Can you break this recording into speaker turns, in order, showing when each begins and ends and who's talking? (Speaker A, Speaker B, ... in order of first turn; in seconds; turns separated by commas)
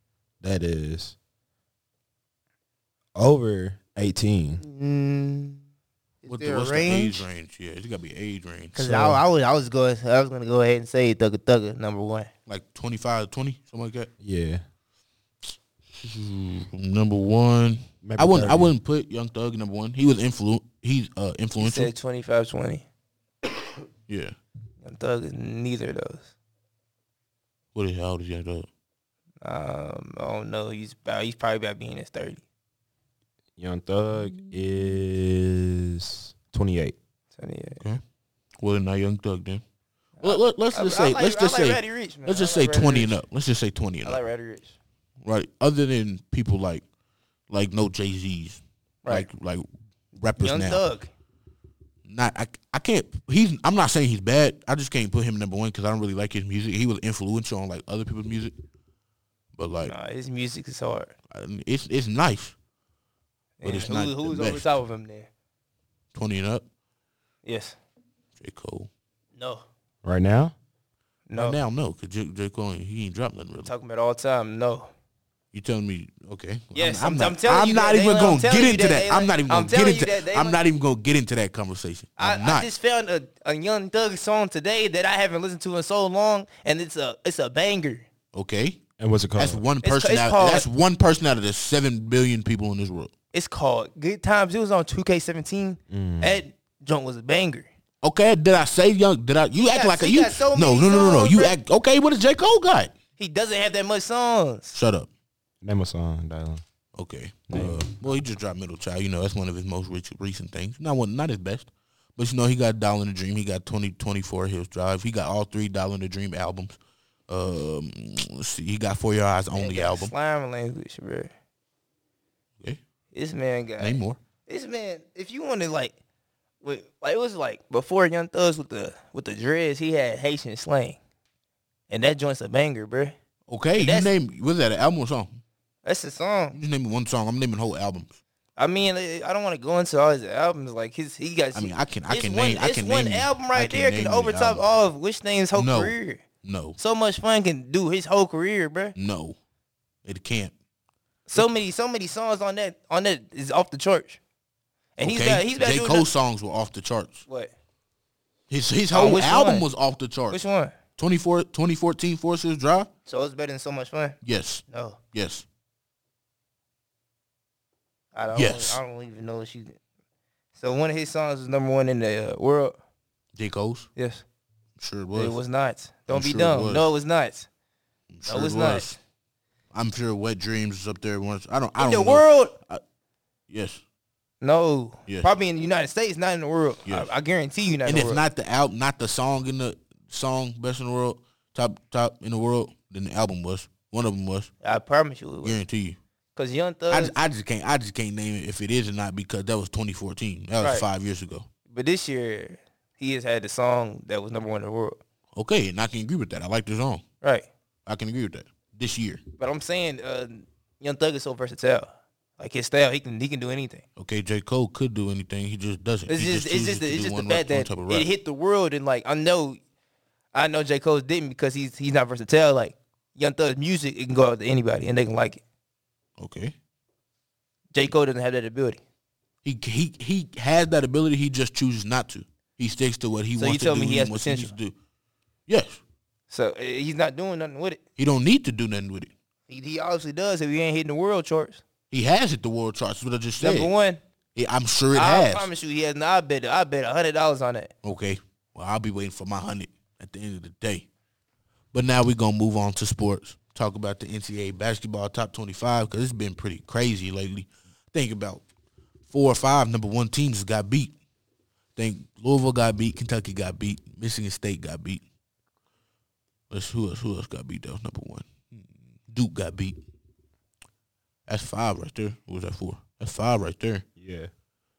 Speaker A: 0.4-1.1, Speaker A: 3.1-4.6, Speaker B: 4.6-5.6, Speaker B: 6.2-7.3, Speaker C: 6.2-8.9, Speaker B: 8.7-12.3, Speaker A: 8.8-9.2, Speaker C: 12.5-14.1, Speaker A: 14.2-14.6, Speaker C: 16.0-21.9, Speaker A: 18.0-18.7, Speaker B: 21.6-22.9, Speaker C: 24.1-24.3, Speaker B: 24.8-26.3, Speaker C: 27.7-28.7, Speaker B: 29.4-32.4, Speaker A: 33.6-37.0, Speaker C: 34.3-34.6, Speaker B: 37.3-37.8, Speaker C: 38.6-39.6, Speaker B: 40.2-43.1, Speaker C: 40.2-44.2, Speaker B: 44.0-44.7, Speaker C: 45.2-46.8, Speaker C: 47.5-50.8, Speaker B: 50.4-51.1, Speaker C: 52.0-58.5, Speaker C: 59.5-59.9, Speaker B: 59.8-61.1, Speaker C: 61.3-62.5, Speaker B: 63.6-65.3, Speaker C: 63.6-64.8, Speaker C: 66.1-66.6, Speaker B: 67.4-67.8, Speaker C: 68.4-68.9, Speaker B: 69.3-69.7, Speaker A: 70.0-70.5, Speaker B: 71.3-71.6, Speaker C: 71.3-73.7, Speaker B: 73.6-74.9, Speaker C: 75.5-82.7, Speaker B: 76.7-80.6, Speaker B: 82.2-88.1, Speaker C: 88.3-88.8, Speaker A: 89.0-89.6, Speaker C: 89.3-93.1, Speaker B: 89.8-90.7, Speaker B: 93.3-97.7, Speaker A: 95.9-96.4, Speaker C: 98.0-102.9, Speaker B: 99.5-101.5, Speaker B: 103.2-104.8, Speaker C: 104.7-105.1, Speaker A: 105.6-106.6, Speaker C: 106.9-116.8, Speaker A: 107.5-108.2, Speaker C: 117.3-120.1, Speaker B: 119.5-121.3, Speaker B: 123.1-126.0, Speaker C: 123.8-124.2, Speaker B: 126.6-131.0, Speaker B: 131.9-133.2, Speaker C: 133.5-135.4, Speaker B: 133.8-134.1, Speaker B: 135.8-136.6, Speaker C: 136.5-138.2, Speaker B: 138.6-146.2, Speaker C: 141.5-144.6, Speaker C: 145.5-146.8, Speaker B: 146.8-148.9, Speaker C: 148.9-149.4, Speaker C: 150.0-150.5, Speaker B: 151.3-154.2, Speaker B: 155.0-156.1, Speaker C: 155.0-157.2, Speaker B: 157.3-157.5, Speaker C: 158.5-160.4, Speaker B: 158.9-159.6, Speaker B: 160.3-160.7, Speaker C: 161.0-162.9, Speaker B: 163.1-164.2, Speaker C: 164.2-165.4, Speaker B: 164.7-165.0, Speaker B: 168.1-169.8, Speaker C: 168.3-168.8, Speaker B: 170.5-172.8, Speaker C: 173.3-173.9, Speaker B: 173.9-174.2, Speaker C: 174.8-175.4, Speaker B: 175.1-177.5, Speaker C: 176.1-176.9, Speaker C: 178.1-179.0, Speaker B: 178.2-178.9, Speaker C: 179.7-182.8, Speaker B: 181.8-182.5, Speaker C: 183.5-183.8, Speaker B: 184.4-188.2, Speaker C: 187.8-194.5, Speaker B: 194.6-195.6, Speaker C: 195.4-196.0, Speaker B: 196.3-197.2, Speaker C: 196.9-201.5, Speaker B: 200.6-200.8, Speaker B: 201.7-205.0, Speaker C: 205.3-207.0, Speaker B: 207.2-207.5, Speaker C: 207.8-209.2, Speaker B: 209.4-213.8, Speaker C: 214.0-218.1, Speaker B: 216.1-219.6, Speaker B: 220.3-225.4, Speaker C: 226.2-226.5, Speaker B: 227.7-228.8, Speaker C: 229.4-234.7, Speaker B: 233.4-234.6, Speaker C: 235.5-235.8, Speaker B: 236.3-237.8, Speaker C: 238.0-239.1, Speaker B: 239.5-241.6, Speaker C: 241.9-243.7, Speaker B: 243.4-244.0, Speaker C: 244.3-245.5, Speaker B: 244.9-247.7, Speaker C: 247.8-250.8, Speaker C: 251.7-258.4, Speaker C: 259.1-260.9, Speaker C: 261.8-265.0, Speaker C: 266.5-269.8, Speaker C: 271.3-273.8, Speaker A: 273.9-274.3